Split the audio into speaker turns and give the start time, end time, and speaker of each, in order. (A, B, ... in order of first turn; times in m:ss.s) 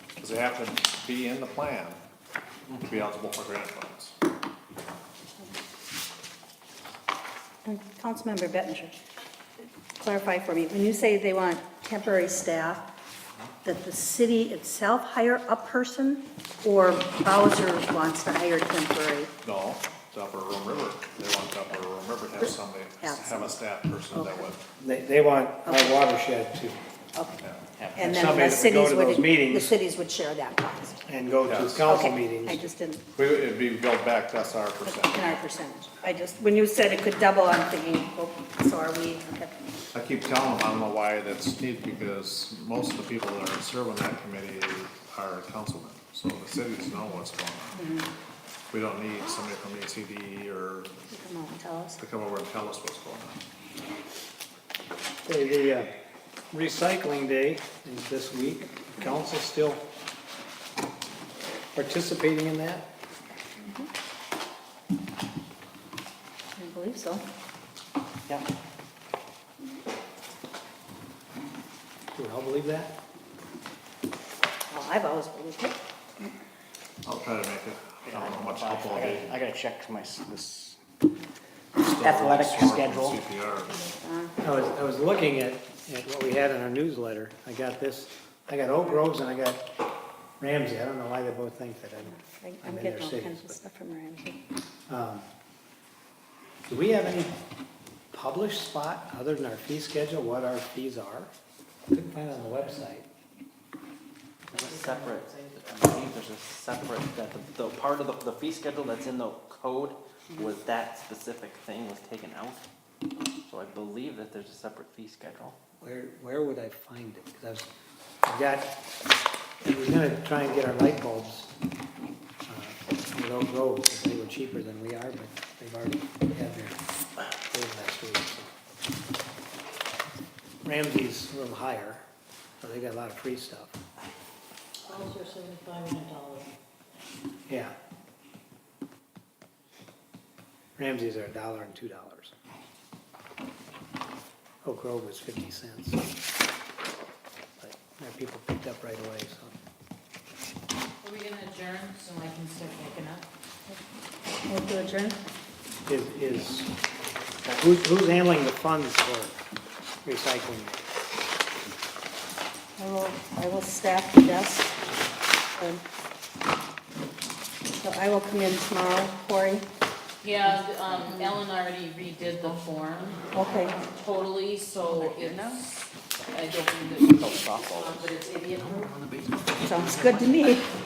0:00.2-0:02.0 A
0:02.8-0:04.2 A
0:07.6-0:09.0 B
0:10.0-0:12.9 B
0:13.6-0:19.3 B
0:19.4-0:24.6 A
0:22.4-0:23.6 B
0:24.1-0:24.4 B
0:24.8-0:26.8 C
0:25.6-0:26.0 B
0:27.8-0:28.1 D
0:27.9-0:31.0 B
0:28.0-0:29.8 C
0:31.0-0:32.6 C
0:31.5-0:31.9 A
0:31.9-0:33.0 B
0:33.2-0:35.4 A
0:34.9-0:39.6 B
0:39.9-0:47.9 A
0:47.8-0:48.1 B
0:48.7-0:51.0 A
0:51.1-0:52.0 B
0:52.0-0:53.4 A
0:55.2-0:55.9 C
0:56.5-0:59.9 C
1:01.7-1:02.9 C
1:03.6-1:03.9 B
1:06.6-1:07.2 B
1:12.1-1:13.0 C
1:14.7-1:16.3 B
1:17.0-1:19.4 A
1:18.0-1:20.8 E
1:21.8-1:23.8 A
1:21.8-1:23.2 E
1:23.7-1:24.4 B
1:24.4-1:29.7 C
1:30.4-1:33.6 C
1:32.2-1:34.4 B
1:34.9-1:35.3 C
1:36.7-1:37.4 C
1:38.1-1:41.3 C
1:41.9-1:43.1 C
1:44.5-1:52.6 D
1:44.5-1:45.9 F
1:53.4-1:55.6 D
1:55.8-1:57.7 C
1:58.2-1:58.7 C
1:59.6-2:01.5 C
2:02.5-2:06.8 C
2:07.5-2:08.6 C
2:10.6-2:12.0 C
2:12.6-2:13.8 C
2:14.9-2:15.6 B
2:17.5-2:17.8 C
2:20.8-2:22.3 C
2:24.6-2:26.1 C
2:27.6-2:29.6 C
2:31.0-2:33.3 F
2:34.5-2:35.2 B
2:35.9-2:36.7 C
2:37.5-2:39.4 C
2:40.0-2:40.9 C
2:42.8-2:44.8 B
2:45.5-2:45.8 B
2:47.7-2:49.6 B
2:50.2-2:53.2 F
2:50.4-2:51.4 B
2:52.2-2:52.6 D
2:53.3-2:53.8 B
2:54.0-2:55.6 F
2:54.8-2:55.7 D
2:56.2-2:58.9 F
2:57.0-3:00.6 D
2:59.6-3:00.7 B